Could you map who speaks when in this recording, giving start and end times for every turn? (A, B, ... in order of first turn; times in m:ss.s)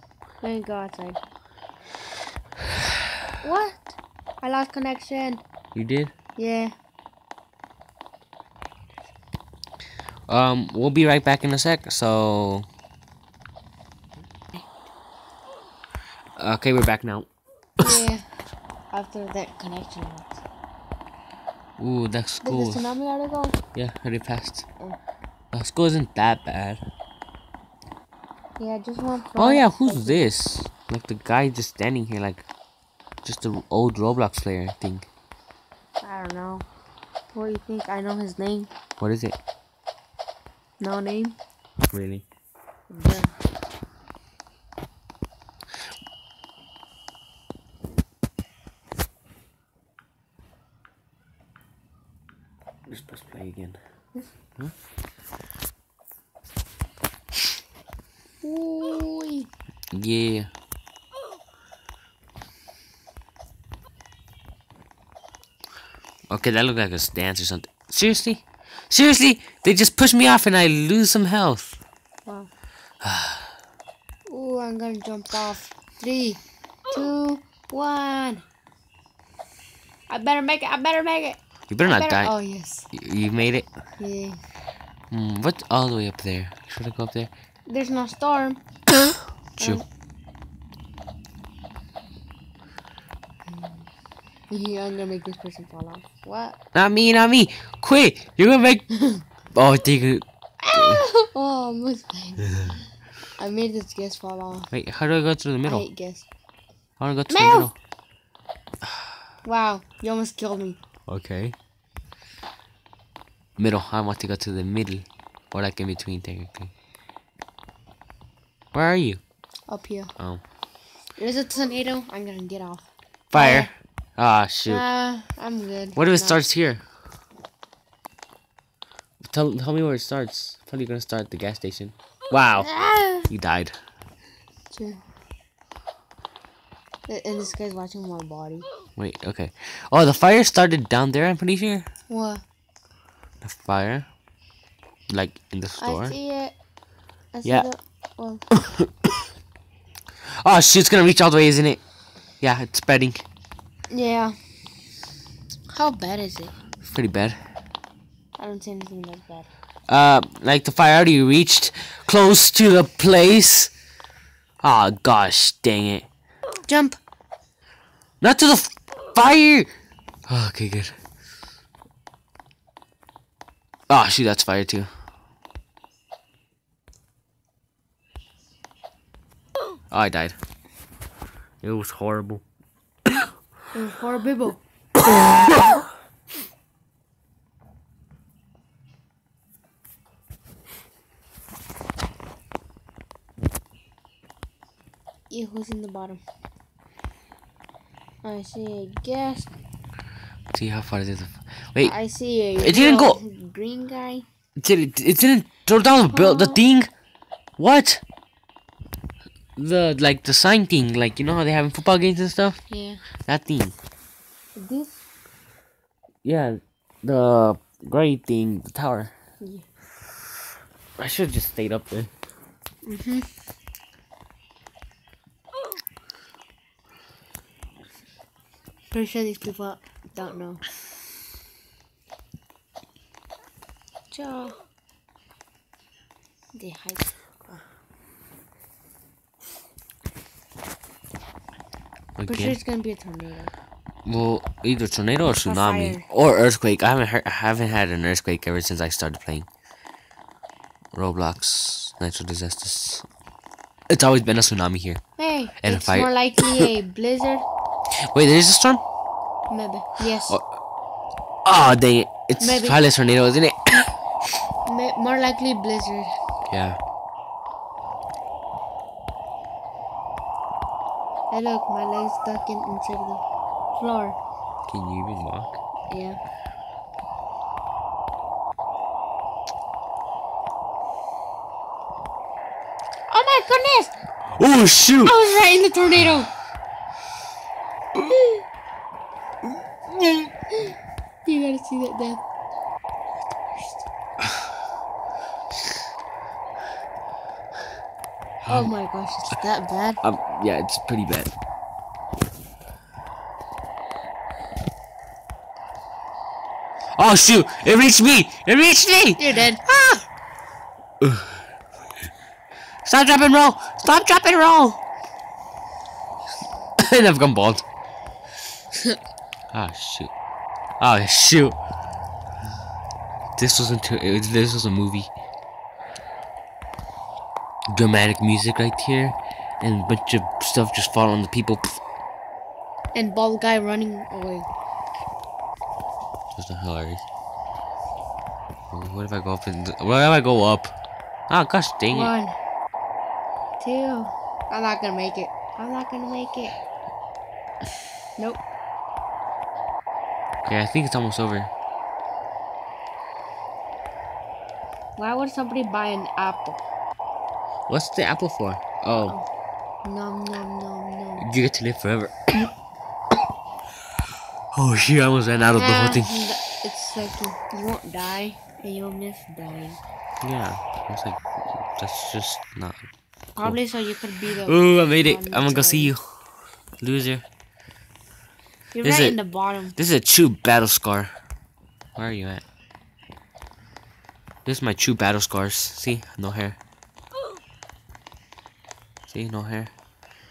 0:00.4-0:01.2 A
0:03.4-0:05.4 A
0:05.7-0:06.1 B
0:06.4-0:06.7 A
0:10.3-0:12.7 B
0:16.4-0:17.3 B
0:17.8-0:18.2 A
0:18.9-0:20.4 A
0:21.8-0:22.8 B
0:22.4-0:23.6 A
0:23.7-0:24.6 B
0:25.5-0:26.8 B
0:28.6-0:30.3 A
0:29.4-0:32.4 B
0:33.2-0:35.1 B
0:36.0-0:36.7 A
0:37.3-0:38.7 A
0:39.0-0:39.4 B
0:40.8-0:41.4 A
0:41.9-0:42.2 B
0:42.9-0:43.3 A
0:52.9-0:53.8 B
0:58.4-0:59.5 A
0:59.9-1:00.5 B
1:06.3-1:11.8 B
1:13.0-1:13.5 B
1:14.3-1:18.4 A
1:20.1-1:22.9 A
1:21.7-1:22.3 B
1:22.9-1:23.7 B
1:24.0-1:24.4 A
1:25.1-1:27.3 B
1:27.7-1:28.6 A
1:29.6-1:29.8 A
1:33.5-1:33.9 A
1:34.5-1:36.6 A
1:36.7-1:38.9 B
1:38.9-1:39.2 A
1:39.5-1:41.0 B
1:40.6-1:42.8 A
1:43.4-1:44.7 A
1:44.7-1:45.9 B
1:45.6-1:46.2 A
1:47.0-1:47.7 B
1:47.3-1:47.7 A
1:49.4-1:50.8 A
1:51.1-1:51.5 B
1:53.6-1:56.7 B
1:58.7-1:59.2 B
1:59.7-2:00.1 A
2:01.2-2:03.7 A
2:03.3-2:04.8 B
2:04.6-2:06.4 A
2:05.9-2:06.8 B
2:09.2-2:12.7 B
2:12.6-2:13.3 A
2:13.3-2:13.7 B
2:14.7-2:15.0 A
2:17.1-2:18.7 A
2:19.0-2:21.9 B
2:22.1-2:22.4 A
2:23.4-2:24.1 B
2:25.1-2:26.1 B
2:25.8-2:26.5 A
2:27.3-2:28.4 A
2:28.5-2:29.1 B
2:30.4-2:31.8 B
2:32.4-2:33.2 B
2:33.9-2:34.4 A
2:35.7-2:36.5 A
2:36.8-2:37.4 B
2:38.4-2:39.5 A
2:39.9-2:43.7 B
2:44.6-2:46.1 B
2:46.7-2:47.0 A
2:48.2-2:49.7 B
2:50.3-2:50.9 B
2:53.9-2:54.9 B
2:59.9-3:00.4 B
3:01.6-3:02.4 B
3:03.7-3:04.6 A
3:15.3-3:16.2 A
3:18.2-3:19.5 A
3:20.5-3:21.9 B
3:21.8-3:24.2 A
3:22.6-3:23.2 B
3:24.6-3:26.9 B
3:26.1-3:26.6 A
3:27.6-3:28.0 B
3:29.6-3:32.6 B
3:32.7-3:33.0 A
3:33.2-3:33.7 B
3:34.6-3:35.0 A
3:36.2-3:39.1 B
3:39.4-3:39.6 A
3:41.0-3:42.1 B
3:42.8-3:43.3 A
3:48.9-3:50.6 A
3:54.1-3:54.6 A
3:56.5-3:57.6 A
4:02.2-4:02.6 B
4:02.3-4:03.5 A
4:04.0-4:09.5 B
4:05.4-4:06.0 A
4:10.9-4:13.0 B
4:13.9-4:15.0 B
4:15.2-4:17.4 A
4:15.6-4:16.7 B
4:18.1-4:18.8 B
4:19.5-4:20.4 A
4:21.4-4:23.9 B
4:22.4-4:22.8 A
4:24.6-4:26.1 A
4:26.5-4:26.8 B
4:31.3-4:33.2 A
4:33.8-4:34.2 A
4:34.7-4:35.6 B
4:35.9-4:36.2 A
4:43.1-4:43.9 A
4:44.4-4:45.2 B
4:45.0-4:46.3 A
4:51.2-4:52.2 A
4:58.4-5:00.0 A
5:00.0-5:01.3 B
5:07.0-5:10.0 B
5:09.2-5:09.6 A
5:11.0-5:11.3 B
5:12.8-5:14.8 B
5:16.8-5:17.6 B
5:19.5-5:20.1 B
5:20.8-5:21.6 B
5:23.4-5:25.1 B
5:27.7-5:31.8 B
5:32.9-5:34.5 A
5:36.4-5:37.0 B
5:38.7-5:40.7 B
5:41.3-5:42.1 B
5:41.9-5:42.4 A
5:43.6-5:46.5 A
5:48.2-5:48.4 A
5:50.4-5:51.5 B
5:55.0-5:56.6 A
5:57.7-5:59.2 B
5:59.8-6:01.3 A
6:01.2-6:02.3 B
6:04.5-6:06.2 B
6:05.6-6:09.8 A
6:10.2-6:12.9 B
6:13.3-6:15.9 A
6:14.4-6:16.0 B
6:16.8-6:17.2 B
6:18.7-6:19.8 A
6:18.8-6:19.2 B
6:19.8-6:21.1 B
6:22.0-6:22.4 B
6:24.4-6:26.6 B
6:29.1-6:29.7 B